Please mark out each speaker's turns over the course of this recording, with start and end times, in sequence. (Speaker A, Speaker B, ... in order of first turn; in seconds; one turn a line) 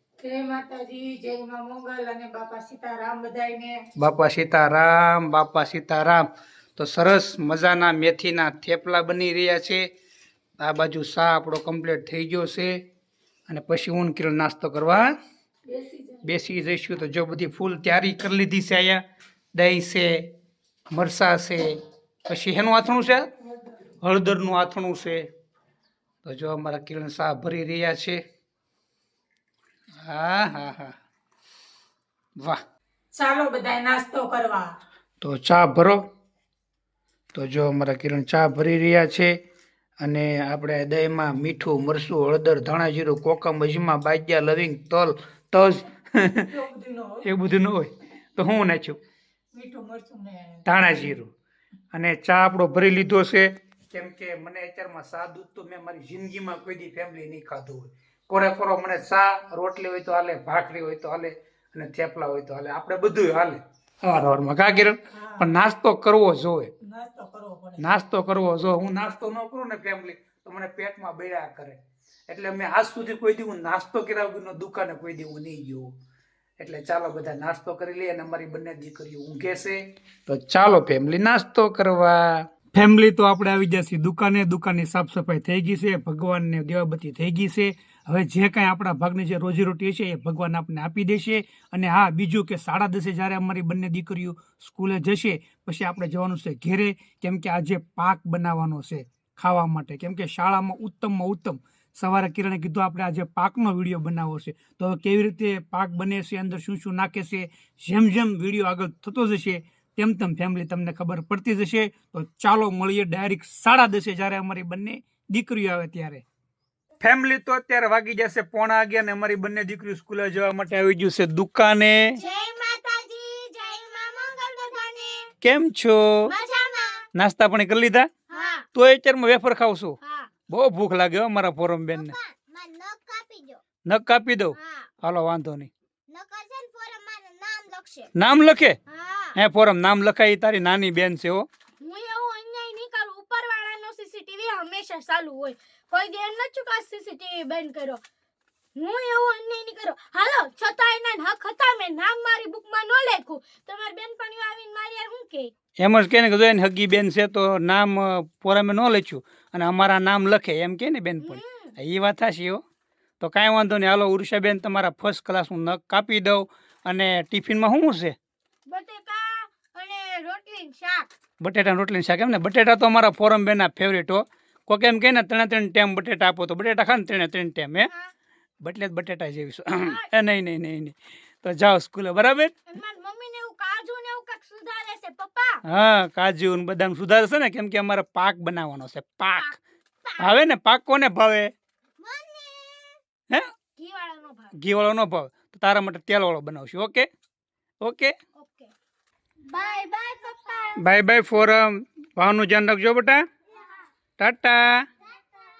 Speaker A: 0.2-3.8
Speaker B: 4.0-6.2
Speaker B: 6.8-9.9
Speaker B: 10.6-12.8
Speaker B: 13.5-15.2
Speaker A: 15.7-16.4
Speaker B: 16.2-19.0
Speaker B: 19.5-20.3
Speaker B: 20.9-23.3
Speaker B: 24.0-25.3
Speaker B: 26.2-28.2
Speaker B: 30.0-30.9
Speaker A: 33.1-34.7
Speaker B: 35.2-36.0
Speaker B: 37.3-39.4
Speaker B: 40.0-46.5
Speaker A: 46.5-47.3
Speaker B: 47.2-49.0
Speaker A: 49.5-50.9
Speaker B: 50.6-51.3
Speaker B: 51.9-66.7
Speaker A: 65.1-65.5
Speaker A: 66.8-67.9
Speaker B: 67.8-75.9
Speaker B: 76.6-116.2
Speaker B: 117.0-122.2
Speaker C: 122.2-125.3
Speaker B: 125.4-126.3
Speaker C: 126.2-127.1
Speaker B: 127.1-128.1
Speaker C: 128.3-128.7
Speaker B: 128.7-130.0
Speaker C: 130.0-130.3
Speaker B: 130.5-132.1
Speaker C: 131.9-133.6
Speaker B: 133.8-135.7
Speaker C: 134.6-134.9
Speaker C: 136.1-138.1
Speaker B: 138.1-138.8
Speaker C: 138.9-139.3
Speaker B: 139.3-141.5
Speaker C: 141.8-148.0
Speaker C: 148.7-155.5
Speaker B: 155.8-162.6
Speaker C: 161.2-161.7
Speaker B: 163.2-168.1
Speaker C: 168.7-171.1
Speaker B: 171.4-177.9
Speaker B: 178.6-182.6
Speaker C: 179.8-180.1
Speaker C: 182.7-185.6
Speaker B: 185.7-189.6
Speaker C: 190.0-190.3
Speaker B: 190.2-191.5
Speaker C: 192.0-193.0
Speaker C: 193.8-194.5
Speaker B: 194.5-197.1
Speaker B: 197.8-198.2
Speaker C: 198.4-198.7
Speaker C: 199.4-200.8
Speaker B: 200.8-203.2
Speaker B: 204.2-204.9